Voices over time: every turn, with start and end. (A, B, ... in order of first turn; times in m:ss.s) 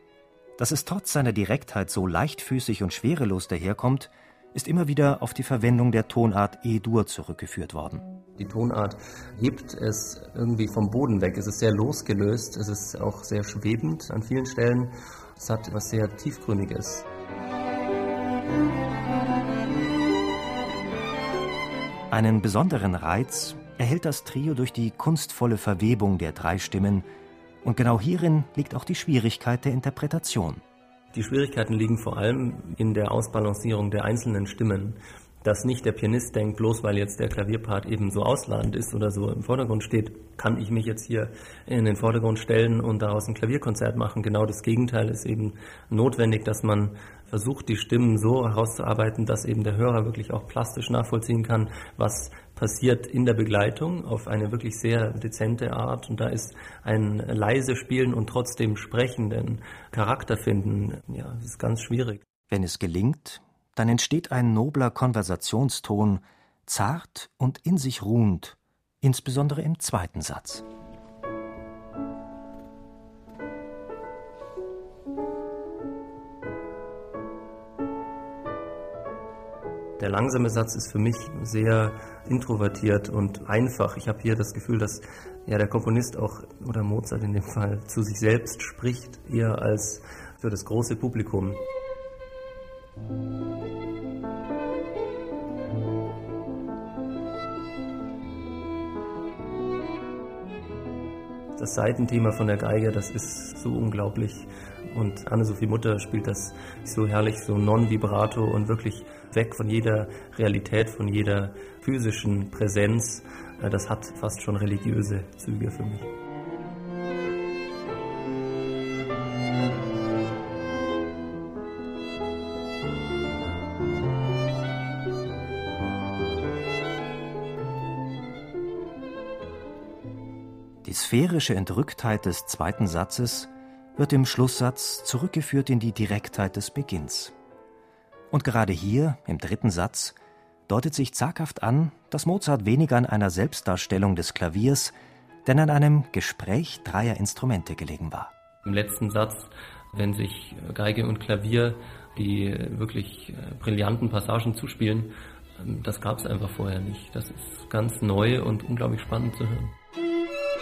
0:00.6-0:08.0 A
0:08.4-0:17.1 B
0:22.1-0:27.1 A
0:27.6-0:30.6 A
0:31.1-1:02.2 B
1:02.5-1:10.6 A
1:20.0-1:31.6 B
1:41.6-1:56.1 B
2:10.8-2:17.3 A
2:18.3-2:20.2 A
2:20.7-2:24.9 A
2:25.4-2:28.3 A
2:28.6-2:39.8 B